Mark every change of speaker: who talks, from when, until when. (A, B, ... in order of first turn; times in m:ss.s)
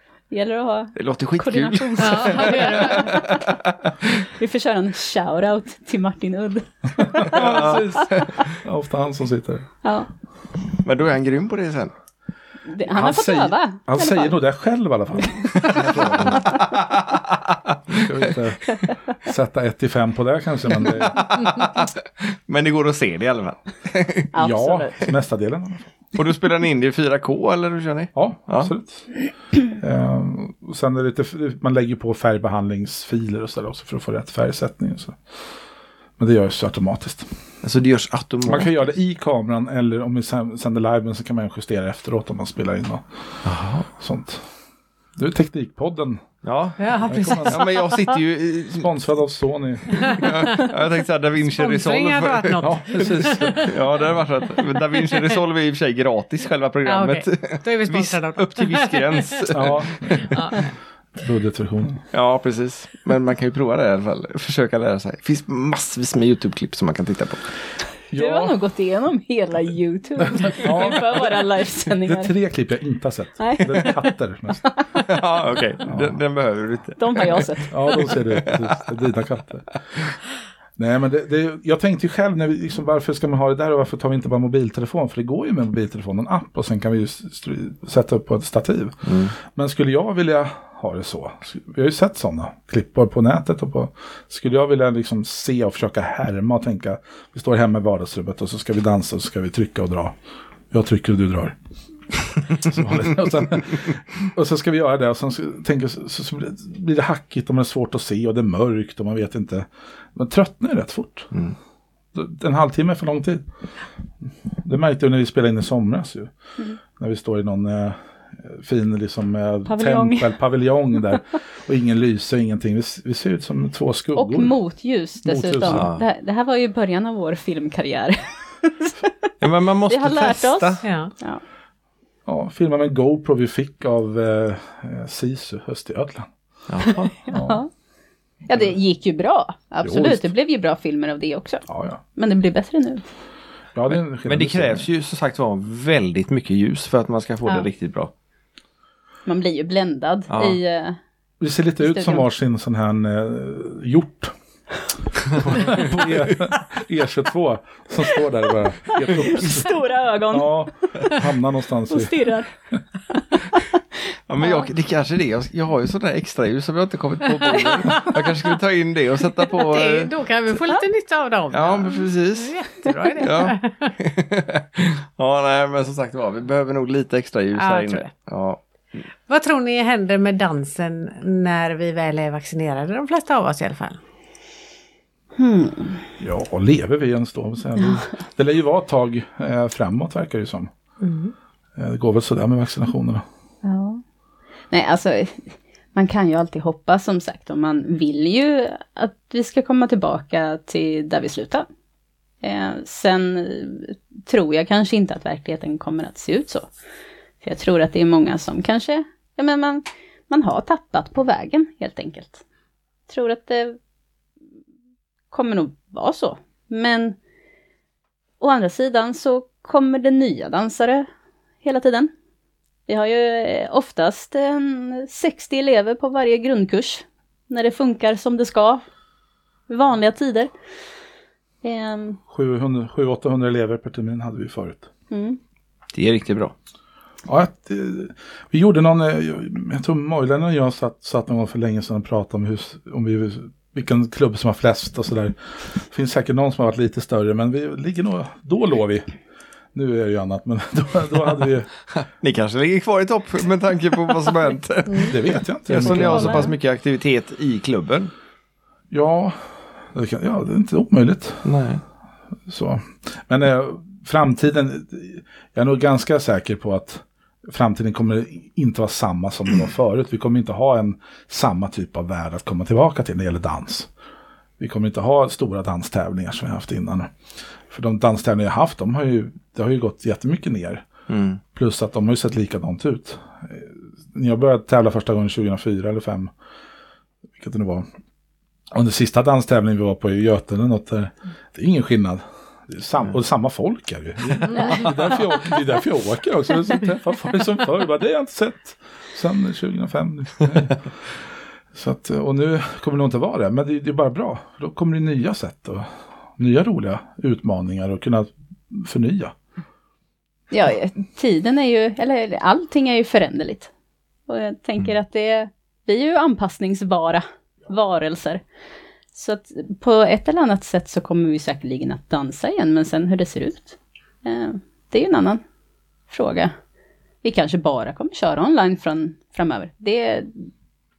0:00.3-0:03.5 A
0:01.0-0:03.9 B
0:02.0-0:03.1 C
0:04.2-0:07.8 A
0:07.0-0:09.7 D
0:07.3-0:07.8 B
0:09.8-0:10.1 A
0:10.8-0:11.9 B
0:12.7-0:14.4 A
0:12.9-0:16.7 D
0:15.8-0:18.1 B
0:17.9-0:21.3 D
0:20.8-0:24.3 B
0:24.3-0:25.1 A
0:24.4-0:25.9 D
0:26.2-0:28.7 B
0:28.2-0:29.1 D
0:29.6-0:35.2 D
0:36.2-0:37.2 D
0:37.6-0:38.7 B
0:38.5-0:43.1 D
0:43.4-0:43.9 B
0:43.9-0:44.4 D
0:45.2-0:46.2 D
0:46.4-0:48.9 B
0:46.8-0:47.6 C
0:47.0-0:47.6 D
0:48.8-0:50.2 D
0:50.0-1:00.5 B
0:51.5-0:53.7 C
0:52.6-0:53.8 D
0:56.8-0:59.4 C
0:59.5-1:00.6 D
1:00.2-1:00.6 C
1:01.2-1:02.0 D
1:02.1-1:07.5 B
1:08.1-1:08.6 D
1:08.1-1:12.3 A
1:10.3-1:14.6 D
1:13.4-1:14.1 A
1:14.6-1:15.0 A
1:15.0-1:18.8 B
1:15.8-1:16.2 D
1:17.0-1:18.2 A
1:17.7-1:19.8 D
1:20.8-1:40.2 D
1:29.0-1:29.3 B
1:40.7-1:41.6 D
1:42.2-1:51.3 D
1:52.1-1:53.4 D
1:54.6-1:56.3 D
1:57.0-2:04.5 D
1:59.7-2:00.3 A
2:04.2-2:09.1 A
2:05.2-2:05.9 D
2:05.7-2:06.0 B
2:09.4-2:10.8 B
2:09.9-2:11.4 A
2:10.8-2:11.1 C
2:12.3-2:16.3 D
2:16.7-2:17.1 B
2:17.2-2:17.7 A
2:17.3-2:17.6 D
2:18.5-2:23.0 A
2:19.8-2:20.2 D
2:21.7-2:22.0 D
2:23.8-2:24.9 D
2:23.9-2:28.1 B
2:29.3-2:31.0 A
2:30.3-2:30.6 B
2:31.4-2:34.3 D
2:31.8-2:32.3 A
2:35.3-2:39.8 D
2:35.3-2:35.8 B
2:39.0-2:41.2 A
2:40.3-2:42.2 D
2:41.9-2:42.5 A
2:43.1-2:43.8 A
2:44.3-2:50.1 B
2:44.4-2:44.7 A
2:47.5-2:48.1 A
2:49.5-2:53.9 C
2:51.5-2:52.5 B
2:53.2-2:58.6 B
2:57.6-2:58.1 C
2:59.3-3:04.0 C
3:05.4-3:06.0 A
3:06.2-3:10.7 D
3:11.0-3:11.3 C
3:11.8-3:13.2 D
3:13.6-3:14.0 A
3:14.7-3:21.7 A
3:22.4-3:26.7 A
3:27.4-3:32.4 A
3:33.1-3:33.8 A
3:35.3-3:37.2 A
3:38.4-3:41.1 A
3:41.6-3:42.1 A
3:42.9-3:48.8 A
3:49.7-3:50.5 A
3:51.6-3:52.2 A
3:52.3-3:54.9 D
3:55.1-3:55.4 A
3:55.9-3:56.5 B
3:57.3-4:09.1 D
4:09.7-4:11.7 D
4:11.9-4:18.1 B
4:15.0-4:16.5 D
4:15.8-4:16.6 A
4:18.9-4:19.4 D
4:19.9-4:21.5 D
4:21.4-4:21.8 B
4:22.5-4:33.9 D
4:34.6-4:37.1 D
4:37.7-4:40.9 D
4:41.1-4:41.4 B
4:41.5-4:46.3 D
4:47.4-4:47.9 D
4:48.7-5:01.1 D
5:01.7-5:09.3 D
5:10.5-5:13.7 A
5:14.3-5:18.4 A
5:19.1-5:25.4 A
5:26.1-5:26.5 A
5:27.2-5:30.5 A